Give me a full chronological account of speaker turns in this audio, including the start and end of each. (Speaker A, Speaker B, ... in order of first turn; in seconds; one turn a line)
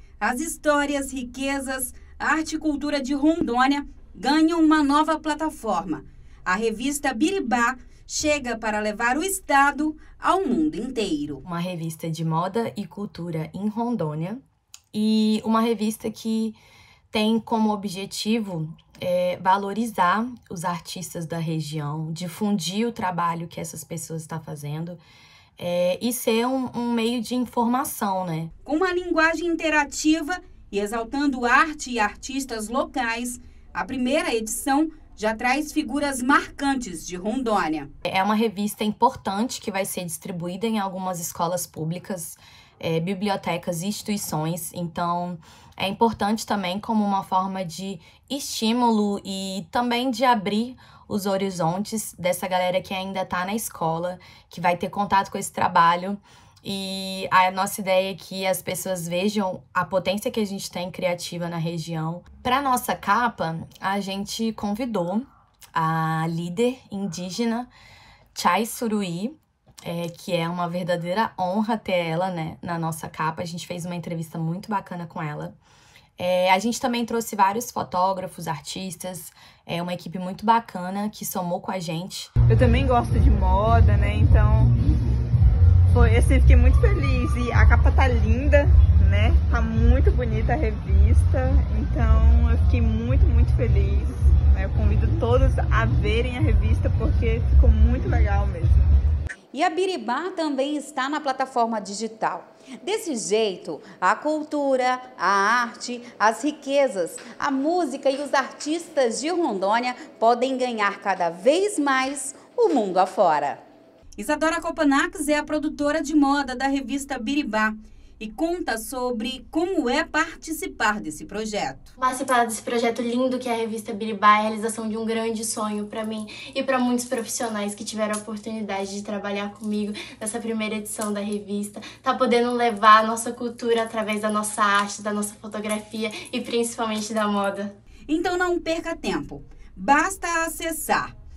Speaker A: 0.2-11.4
Speaker B: 11.4-14.4
Speaker B: 14.9-16.6
Speaker B: 17.1-25.0
Speaker B: 25.6-28.5
Speaker A: 28.6-37.9
Speaker B: 38.0-67.7
Speaker B: 68.3-75.6
Speaker B: 76.2-82.3
Speaker C: 82.5-84.7
Speaker C: 85.9-98.9
Speaker A: 99.5-113.6
Speaker A: 114.2-121.9
Speaker D: 122.0-137.7
Speaker A: 138.1-141.1